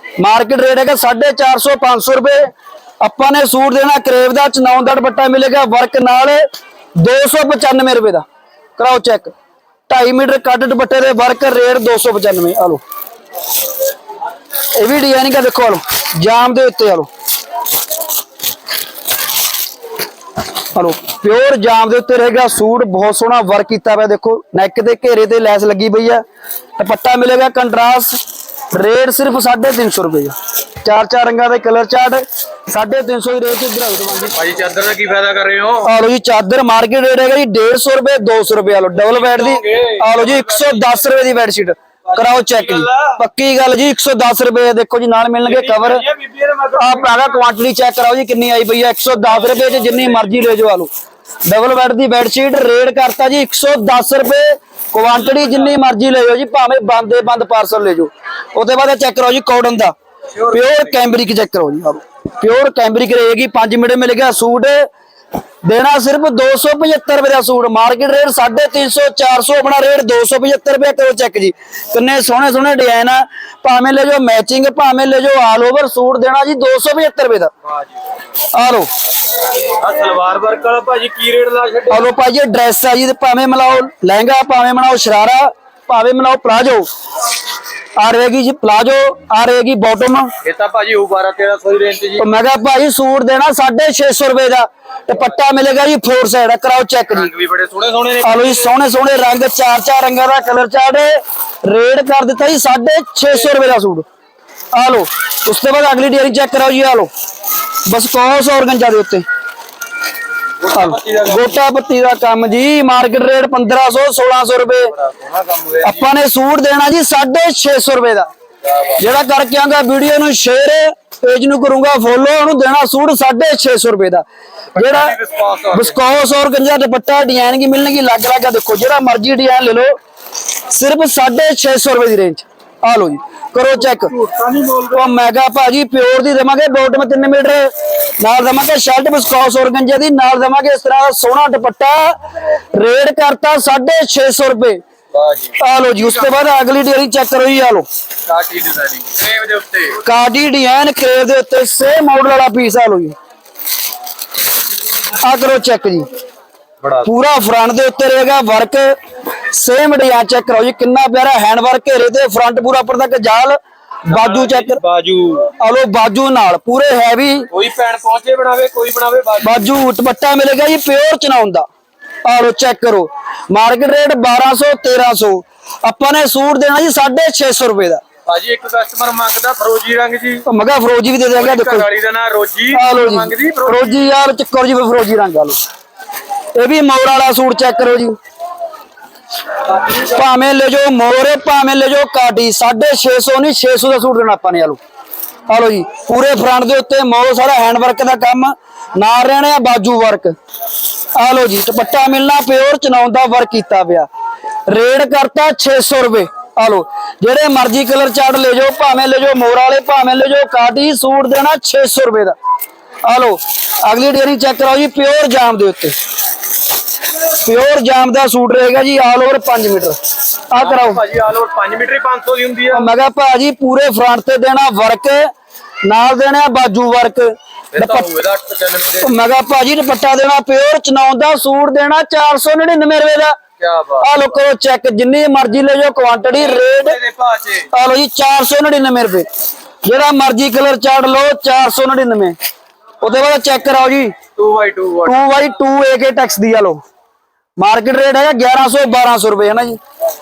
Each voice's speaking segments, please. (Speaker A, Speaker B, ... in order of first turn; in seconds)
Speaker A: 0.2-2.5, 3.0-6.4, 7.0-8.2, 8.8-9.3, 9.9-12.8, 14.8-17.1, 20.7-26.2, 26.8-28.2, 28.7-34.4, 35.8-46.0, 46.8-50.9, 51.5-59.9, 60.5-64.9, 65.6-77.5, 78.5-78.9, 81.9-86.9, 88.0-90.3, 92.2-97.3, 98.2-104.0, 104.7-107.1, 107.8-109.2, 110.7-114.9, 115.8-118.3, 119.0-124.2, 124.8-125.2, 125.7-129.9, 130.7-134.2, 134.9-142.2, 142.7-144.8, 145.6-147.8, 150.0-153.1, 155.2-156.1, 157.0-158.9, 159.5-164.8, 165.6-167.5, 169.4-171.6, 172.2-178.0, 180.4-181.9, 182.7-185.6, 186.6-188.2, 189.9-194.8, 195.5-200.3, 201.1-204.1, 204.7-212.3, 213.0-215.9, 217.4-219.9, 220.5-221.0, 222.7-225.3, 225.8-228.1, 229.0-233.3, 234.0-237.0, 237.7-239.2, 239.8-242.3, 243.0-244.2, 245.0-246.8, 247.6-249.8
Speaker B: 34.4-35.9, 39.0-40.8, 42.2-43.1, 45.5-47.1, 49.5-50.0, 79.7-82.0, 90.4-92.2, 97.1-98.7, 110.6-111.4, 115.0-116.0, 118.7-119.0, 124.8-126.0, 134.2-134.9, 145.1-145.6, 148.3-150.0, 164.1-165.5, 167.5-169.6, 178.2-180.4, 181.3-184.0, 220.6-222.9, 227.7-229.1, 233.6-234.0, 236.4-237.7, 244.4-245.2